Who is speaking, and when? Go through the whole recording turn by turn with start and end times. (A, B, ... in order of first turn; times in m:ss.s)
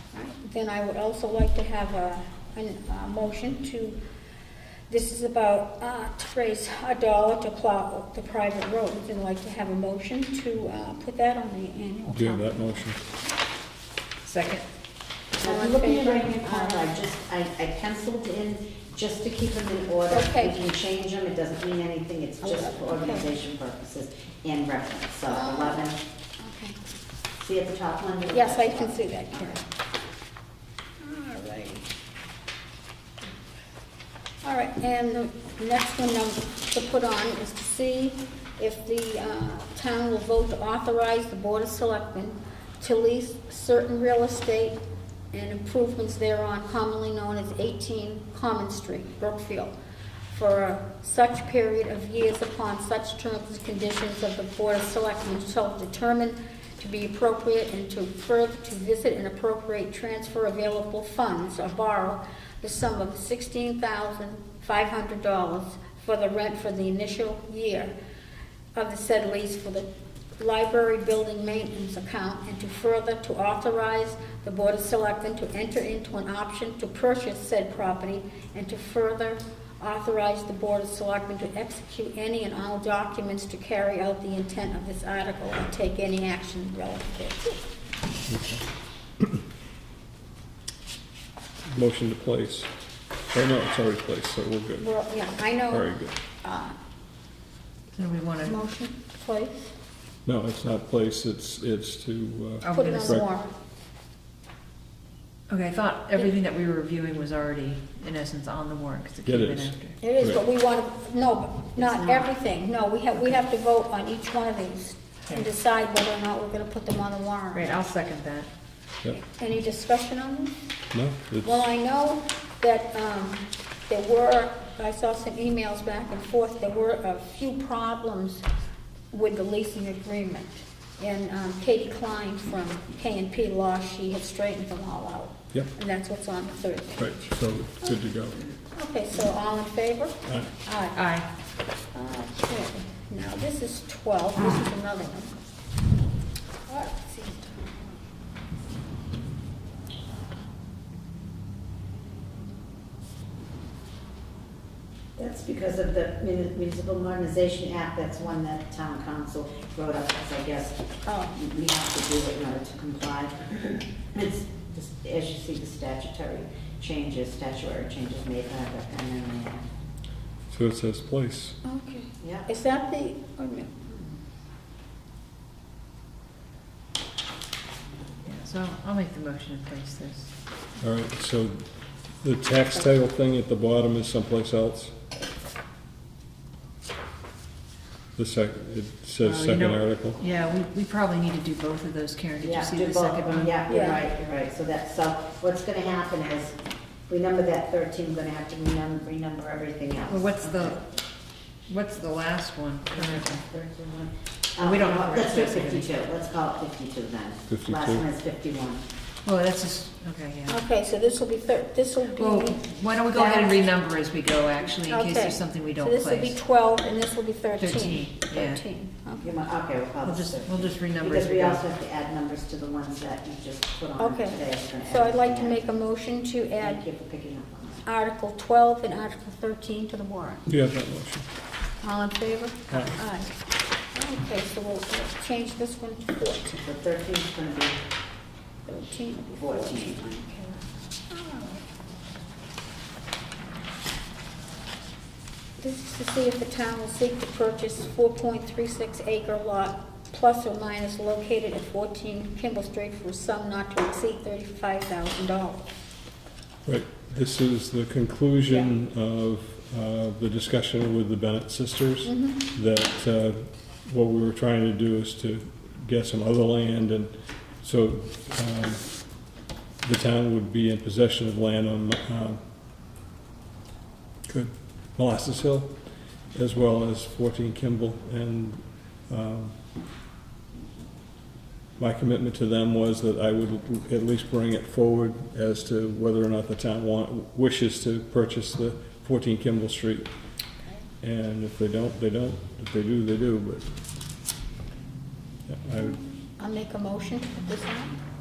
0:00.1-0:04.0 A
0:04.9-0:12.7 A
0:12.1-0:13.0 B
0:14.2-0:14.6 C
0:15.4-0:16.9 A
0:15.4-0:26.0 D
0:20.1-0:20.6 A
0:22.4-0:23.3 A
0:25.3-0:25.9 A
0:26.4-0:26.8 A
0:27.4-0:29.6 D
0:28.3-0:29.6 A
0:31.0-0:31.9 A
0:34.4-0:44.8 A
0:45.3-0:49.7 A
0:50.3-1:07.9 A
1:08.7-1:09.9 A
1:10.4-1:27.6 A
1:28.3-1:28.6 B
1:31.7-1:32.7 B
1:33.3-1:34.9 B
1:34.8-1:36.8 A
1:35.7-1:36.1 B
1:37.9-1:38.6 C
1:38.4-1:39.7 A
1:40.2-1:43.2 B
1:42.6-1:43.2 C
1:42.7-1:43.5 A
1:45.5-1:50.0 C
1:49.2-1:50.4 B
1:50.0-1:57.8 A
1:51.8-1:52.3 C
1:57.5-1:58.5 C
1:59.1-2:00.5 A
2:00.9-2:01.6 B
2:01.4-2:08.4 A
2:09.1-2:17.3 A
2:17.0-2:18.4 B
2:18.7-2:21.0 A
2:20.9-2:21.2 C
2:21.9-2:25.3 A
2:26.7-2:28.0 A
2:35.2-2:40.8 D
2:41.0-2:41.4 A
2:41.3-2:49.6 D
2:50.5-2:51.6 B
2:51.6-2:53.9 A
2:52.2-2:52.5 D
2:58.2-3:00.3 C
3:00.8-3:01.6 B
3:02.2-3:04.9 B
3:08.2-3:10.2 B
3:09.2-3:13.6 C
3:12.4-3:16.5 D
3:13.7-3:14.0 A
3:17.1-3:20.8 D
3:20.1-3:20.9 C
3:21.7-3:23.4 C
3:22.9-3:28.8 D
3:24.6-3:25.9 C
3:27.5-3:28.0 B
3:29.2-3:30.6 C
3:30.5-3:32.6 A
3:32.0-3:36.4 C
3:33.1-3:33.7 D
3:34.9-3:39.3 A
3:37.6-3:38.6 C
3:39.2-3:45.6 D
3:40.0-3:41.6 C
3:44.0-3:46.8 A
3:46.6-3:47.8 D
3:47.8-3:50.4 A
3:50.4-3:51.2 B
3:51.8-3:53.3 A
3:53.9-3:56.7 A
3:56.6-3:57.8 D
3:58.6-4:01.6 A
3:59.4-4:00.1 D
4:05.6-4:15.7 A
4:16.6-4:28.8 B
4:22.0-4:22.4 A
4:29.8-4:32.4 B
4:34.3-4:35.8 B
4:36.3-4:39.5 B
4:41.8-4:50.1 B
4:51.0-4:53.6 B
4:55.5-4:56.0 B
4:56.4-4:58.0 A